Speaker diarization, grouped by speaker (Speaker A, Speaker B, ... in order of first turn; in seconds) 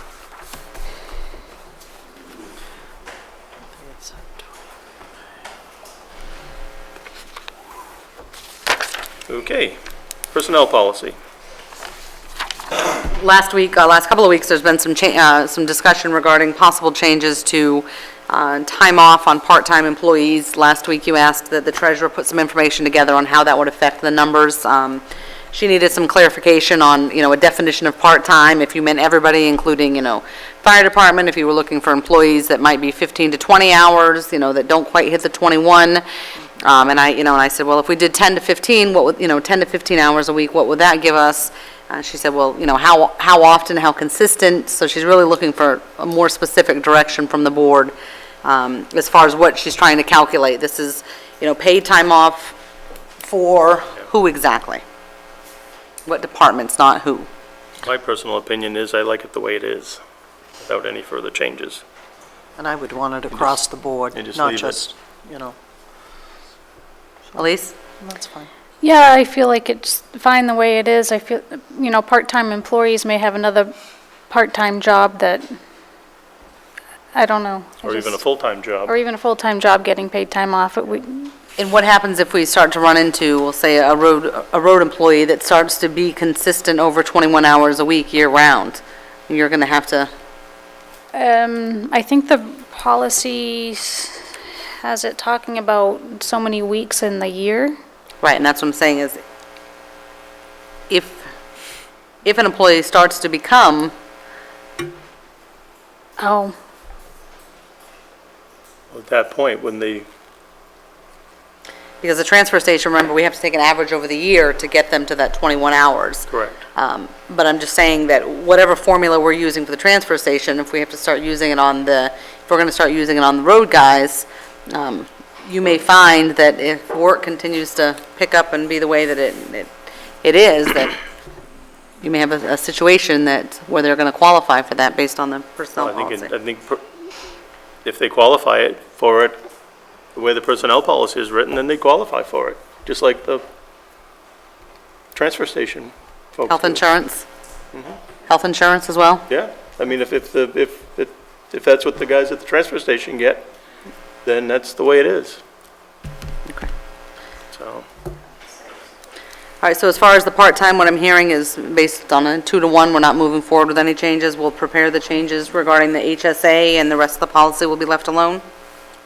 Speaker A: 3.8-4.2, 62.6-65.5, 68.0-68.5
Speaker B: 9.3-9.8, 10.3-11.1, 57.8-60.0, 60.6-61.8, 63.3-63.6, 64.1-64.9, 77.8-78.9, 108.9-110.1, 116.3-116.6, 135.8-136.8, 137.8-139.4, 140.1-143.4, 145.1-146.8, 149.3-153.5, 154.2-155.4, 157.5-157.8
Speaker C: 12.9-36.0, 36.6-47.9, 48.4-52.5, 53.2-54.8, 56.0-57.3, 67.3-67.7, 81.6-90.1, 98.2-99.2, 100.9-101.2, 102.2-103.9, 112.0-129.7, 130.2-130.9, 132.0-136.3, 146.5-147.2, 148.3-149.2, 159.6-168.4
Speaker D: 68.8-73.7, 74.3-75.4, 77.1-78.2, 78.8-81.3, 91.1-94.2, 94.8-97.7, 106.2-106.5